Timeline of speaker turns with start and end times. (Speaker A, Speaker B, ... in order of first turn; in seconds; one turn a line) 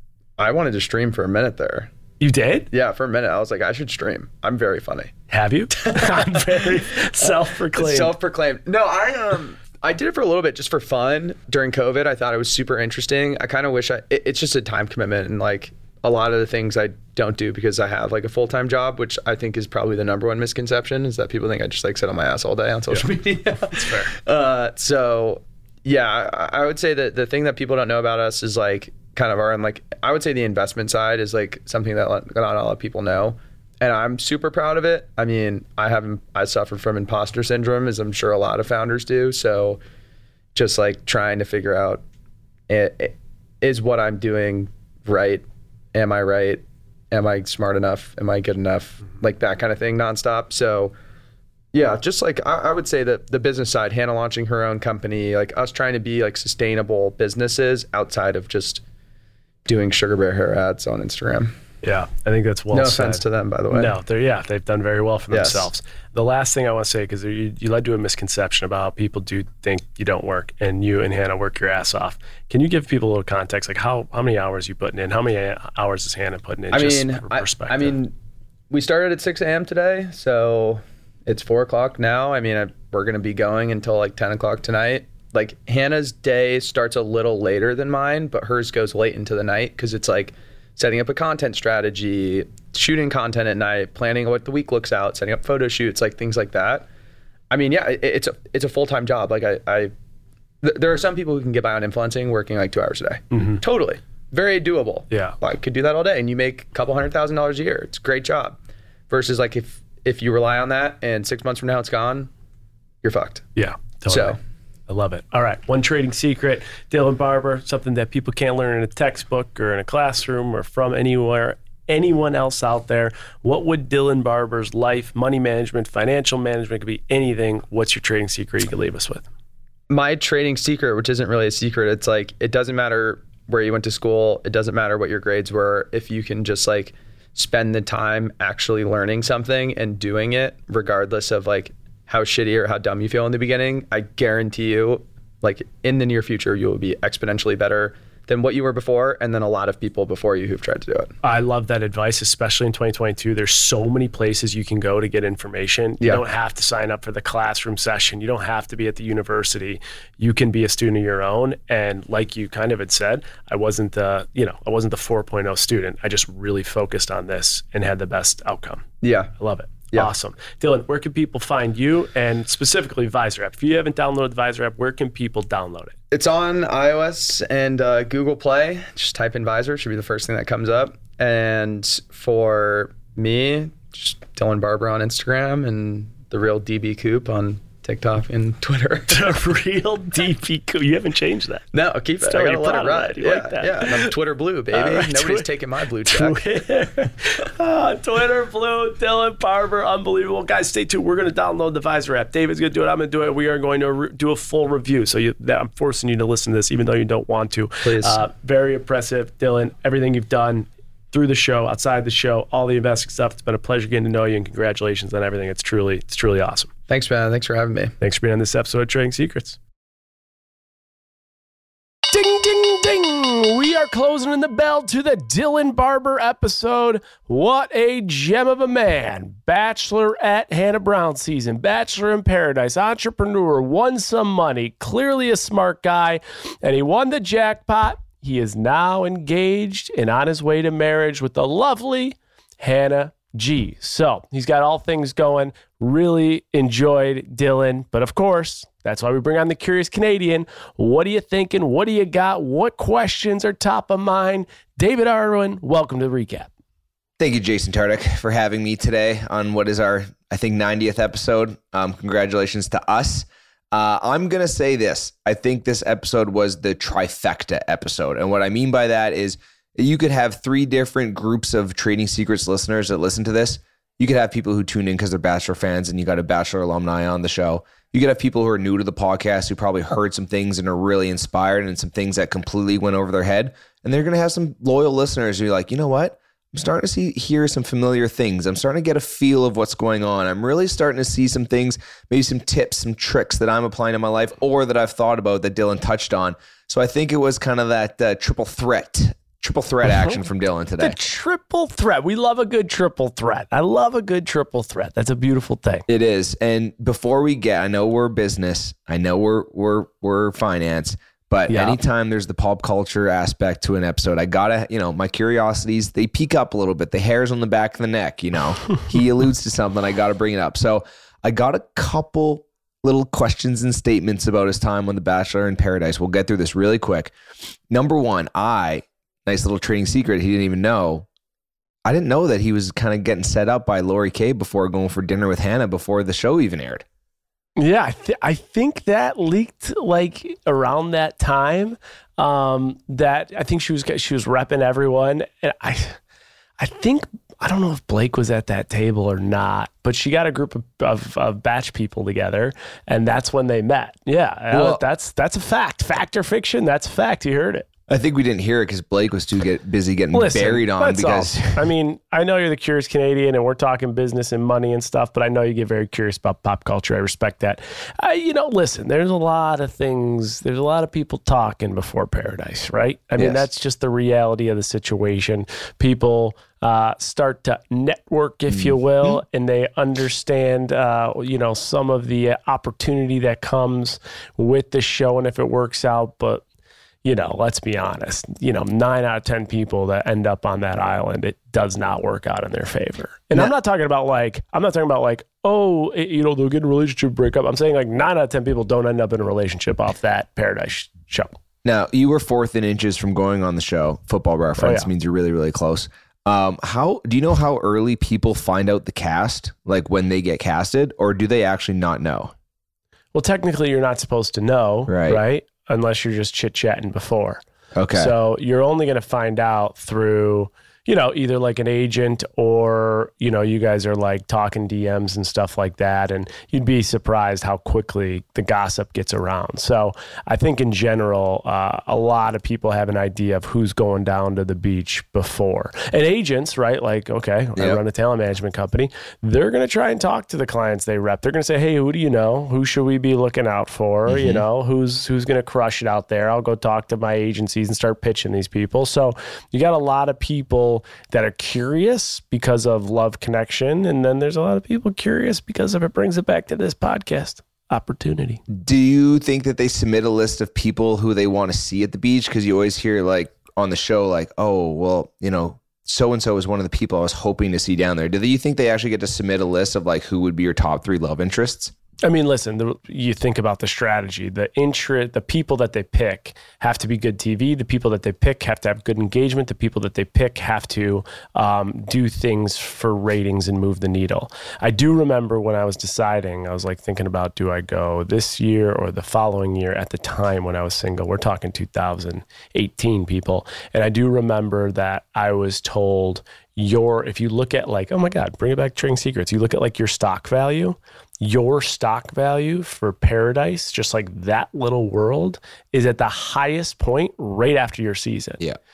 Speaker A: 0.4-1.9
Speaker B: 2.2-2.7
Speaker A: 2.7-5.1
Speaker B: 5.3-8.2
Speaker A: 5.7-39.8
Speaker B: 23.7-24.1
Speaker A: 40.5-42.0
Speaker A: 42.7-50.9
Speaker A: 51.7-58.8
Speaker A: 59.7-61.5
Speaker B: 61.8-78.0
Speaker A: 62.7-64.0
Speaker A: 65.3-65.7
Speaker A: 76.7-78.1
Speaker A: 78.7-96.9
Speaker A: 97.5-99.9
Speaker A: 100.6-112.3
Speaker B: 103.3-103.6
Speaker B: 105.1-105.4
Speaker A: 113.0-113.5
Speaker B: 113.6-114.4
Speaker A: 114.1-114.4
Speaker B: 114.9-129.3
Speaker A: 129.9-151.1
Speaker B: 151.2-168.8
Speaker A: 169.0-169.3
Speaker B: 169.4-175.9
Speaker A: 176.1-189.3
Speaker B: 189.1-191.7
Speaker A: 191.7-196.4
Speaker B: 192.2-194.1
Speaker B: 194.7-195.5
Speaker B: 196.1-216.7
Speaker A: 207.8-208.2
Speaker A: 216.9-217.9
Speaker B: 218.0-219.6
Speaker B: 222.1-256.5
Speaker C: 257.2-301.0
Speaker B: 300.8-305.9
Speaker C: 305.9-327.1
Speaker B: 311.5-311.8
Speaker C: 327.7-331.1
Speaker C: 331.9-336.8
Speaker B: 337.6-346.0
Speaker B: 346.6-357.7
Speaker C: 354.5-354.8
Speaker C: 357.9-361.6
Speaker B: 360.1-386.4
Speaker C: 373.2-373.4
Speaker C: 378.5-379.2
Speaker B: 387.0-401.4
Speaker C: 401.6-412.3
Speaker B: 404.6-404.9
Speaker B: 413.1-417.4
Speaker C: 414.9-415.2
Speaker C: 417.8-418.1
Speaker B: 417.9-458.4
Speaker C: 444.1-444.4
Speaker C: 458.5-471.7
Speaker B: 472.0-508.4